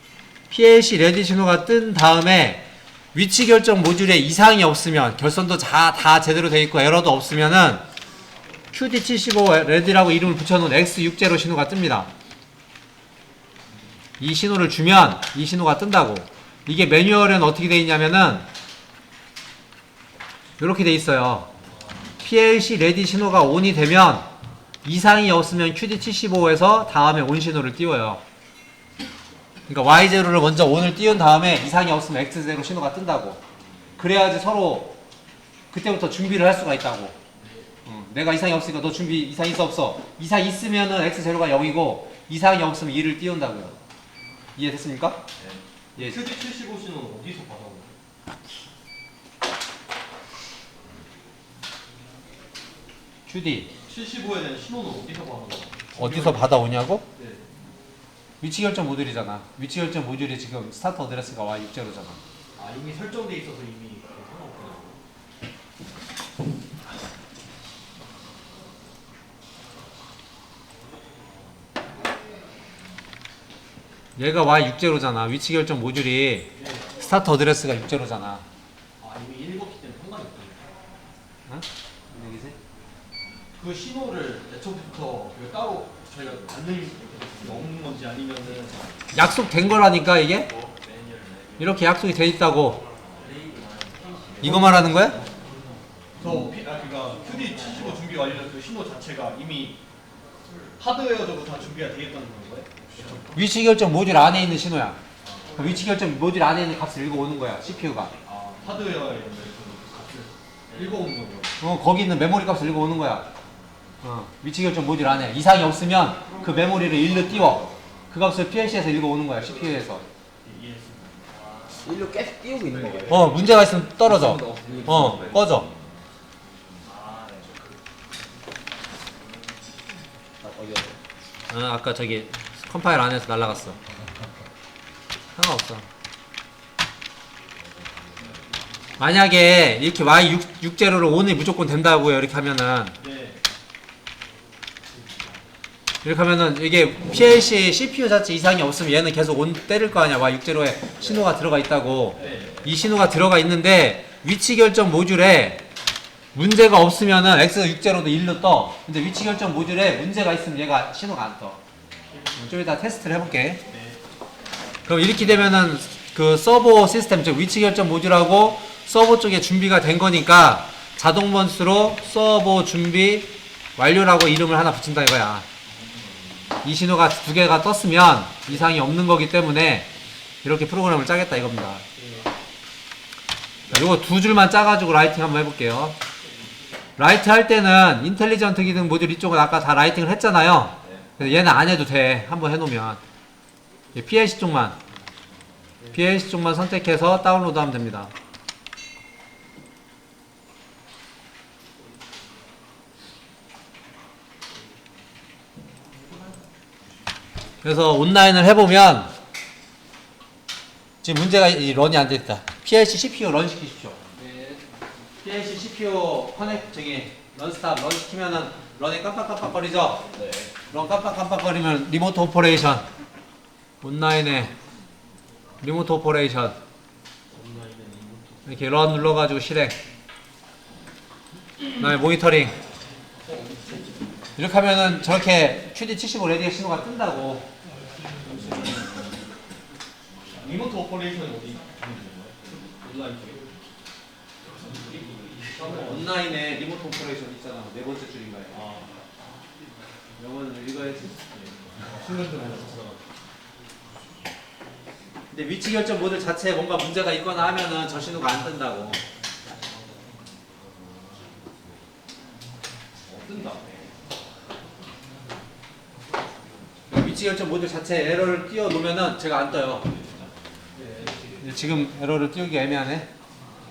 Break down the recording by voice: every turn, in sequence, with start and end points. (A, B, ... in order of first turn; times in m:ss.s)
0:00.5-0:07.8 A
0:08.7-0:12.1 A
0:14.2-0:18.5 A
0:20.6-0:21.5 A
0:22.2-0:24.3 A
0:24.8-0:28.2 A
0:29.7-0:33.4 A
0:34.0-0:35.0 A
0:35.7-0:37.2 A
0:37.4-0:37.7 B
0:37.9-0:43.8 A
0:44.6-0:45.2 A
0:45.4-0:47.9 B
0:53.3-0:53.7 A
0:53.9-0:56.5 B
0:56.0-0:57.0 A
0:57.2-0:57.5 B
0:58.4-1:02.2 A
1:02.6-1:05.0 B
1:14.2-1:18.4 A
1:16.6-1:16.9 B
1:19.0-1:20.7 B
1:21.5-1:22.6 A
1:23.6-1:28.8 B
1:29.1-1:30.6 A
1:31.6-1:32.8 A
1:34.4-1:35.5 B
1:34.4-1:35.2 A
1:36.2-1:39.8 B
1:40.8-1:43.3 B
1:43.3-1:45.0 A
1:45.2-1:45.6 B
1:45.6-1:48.1 A
1:48.2-1:51.6 B
1:51.6-1:53.3 A
1:54.0-2:00.0 A
2:00.4-2:01.3 B
2:01.7-2:03.4 C
2:03.1-2:05.7 A
2:04.0-2:05.8 C
2:10.4-2:11.0 C
2:11.5-2:13.8 A
2:15.4-2:15.9 A
2:19.0-2:23.0 A
2:23.0-2:23.4 B
2:26.0-2:35.7 A
2:32.2-2:32.6 B
2:36.4-2:41.6 A
2:42.4-2:43.6 A
2:43.7-2:44.0 B
2:44.9-2:55.5 A
2:56.6-2:59.9 A
3:00.4-3:01.8 A
3:02.0-3:02.3 B
3:03.7-3:06.0 A
3:07.0-3:13.0 A
3:14.0-3:14.8 A
3:15.9-3:18.1 A
3:27.6-3:29.1 A
3:31.0-3:34.0 A
3:34.2-3:34.6 B
3:35.2-3:40.1 A
3:40.2-3:40.5 C
3:40.7-3:42.9 A
3:43.8-3:44.5 A
3:45.6-3:46.6 A
3:47.3-3:48.5 B
3:48.5-3:49.8 A
3:51.8-3:52.6 A
3:53.2-3:53.9 B
3:54.4-3:57.5 A
3:58.1-3:59.1 B
4:00.4-4:03.5 B
4:04.6-4:06.1 B
4:05.6-4:08.6 A
4:08.5-4:08.9 B
4:10.2-4:11.2 A
4:11.4-4:13.0 B
4:15.3-4:19.0 A
4:23.1-4:23.7 B
4:26.9-4:29.9 A
4:30.8-4:31.3 B
4:31.4-4:33.1 A